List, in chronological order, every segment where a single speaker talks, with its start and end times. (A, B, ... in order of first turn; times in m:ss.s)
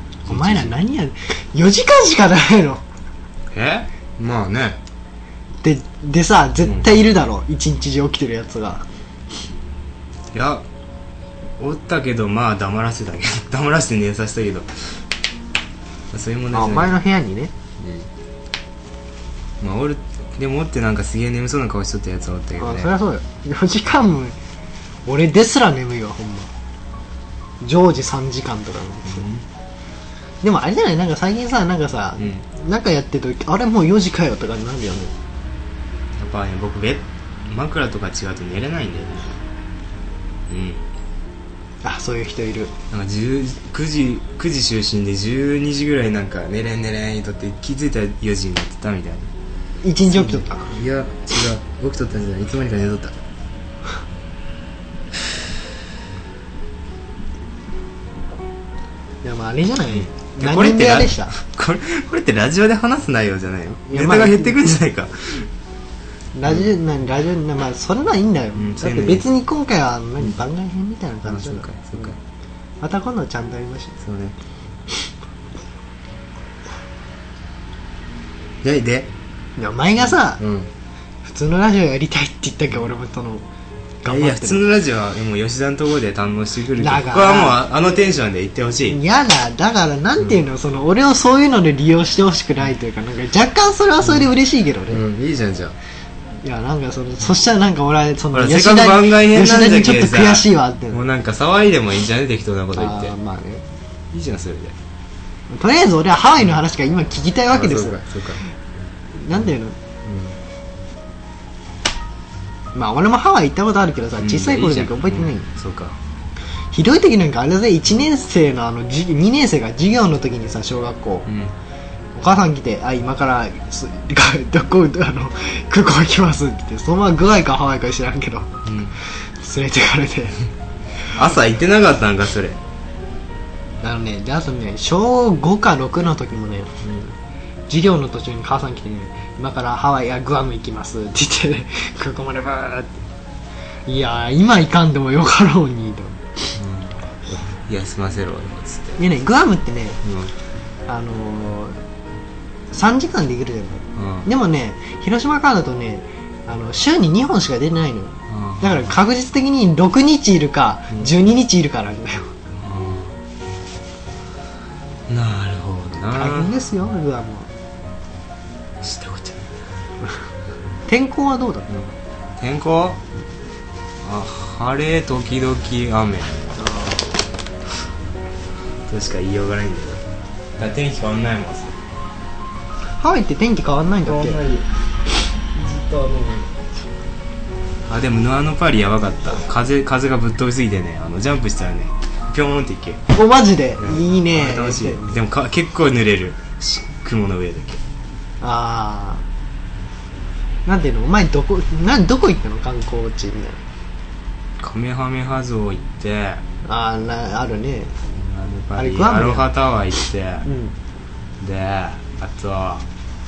0:00.2-0:00.7 A
0:00.2-0:02.8 B
0:03.5-0:04.8 A
0:05.6-0:08.8 B
0:06.6-0:07.0 A
0:10.3-0:10.6 A
0:11.6-0:15.0 A
0:16.1-0:17.0 A
0:16.5-0:17.5 B
0:17.8-0:18.1 A
0:19.6-0:22.9 A
0:22.6-0:24.4 B
0:25.0-0:26.5 B
0:27.6-0:29.2 B
0:29.1-0:29.4 A
0:30.4-0:35.1 B
0:36.1-0:39.4 A
0:40.5-0:40.9 A
0:41.8-0:42.7 B
0:42.9-0:49.3 A
0:49.8-0:50.7 B
0:50.0-0:53.2 A
0:59.2-1:01.3 B
1:00.2-1:05.5 A
1:03.9-1:04.6 B
1:06.3-1:11.7 B
1:08.5-1:09.3 A
1:11.3-1:12.2 A
1:12.8-1:13.9 B
1:14.0-1:14.4 A
1:18.6-1:19.1 A
1:19.6-1:20.4 B
1:20.4-1:20.7 A
1:21.2-1:23.4 B
1:24.0-1:24.7 B
1:24.0-1:29.0 A
1:26.8-1:27.6 B
1:28.9-1:35.0 B
1:34.9-1:35.8 A
1:36.4-1:41.0 B
1:38.3-1:43.1 A
1:42.7-1:43.6 B
1:44.1-1:44.8 A
1:45.5-1:48.0 B
1:47.5-1:48.5 A
1:49.1-1:49.8 B
1:50.0-1:50.4 A
1:52.7-1:55.5 B
1:54.2-1:56.0 A
1:56.7-2:01.3 B
2:01.2-2:01.5 A
2:02.1-2:10.4 B
2:08.6-2:09.0 A
2:11.0-2:12.6 A
2:13.8-2:17.1 B
2:17.7-2:23.0 B
2:23.9-2:26.6 B
2:26.6-2:29.0 A
2:29.0-2:30.0 B
2:30.0-2:30.3 A
2:30.9-2:31.8 B
2:32.7-2:42.3 B
2:34.0-2:34.3 A
2:38.3-2:38.9 A
2:42.6-2:43.1 A
2:45.1-2:46.5 A
2:46.1-2:47.5 B
2:48.8-2:49.4 A
2:50.9-2:51.7 B
2:51.7-2:53.0 A
2:54.0-2:56.4 A
2:56.6-2:57.1 B
2:58.9-3:00.0 A
3:00.6-3:01.8 A
3:03.0-3:04.4 B
3:04.0-3:04.7 A
3:05.4-3:06.5 A
3:07.9-3:13.0 A
3:13.1-3:15.2 B
3:13.8-3:17.8 A
3:18.4-3:19.2 B
3:20.6-3:23.6 B
3:24.6-3:26.4 A
3:26.6-3:27.9 B
3:28.1-3:30.4 A
3:28.8-3:29.5 B
3:30.4-3:30.7 B
3:31.4-3:32.8 A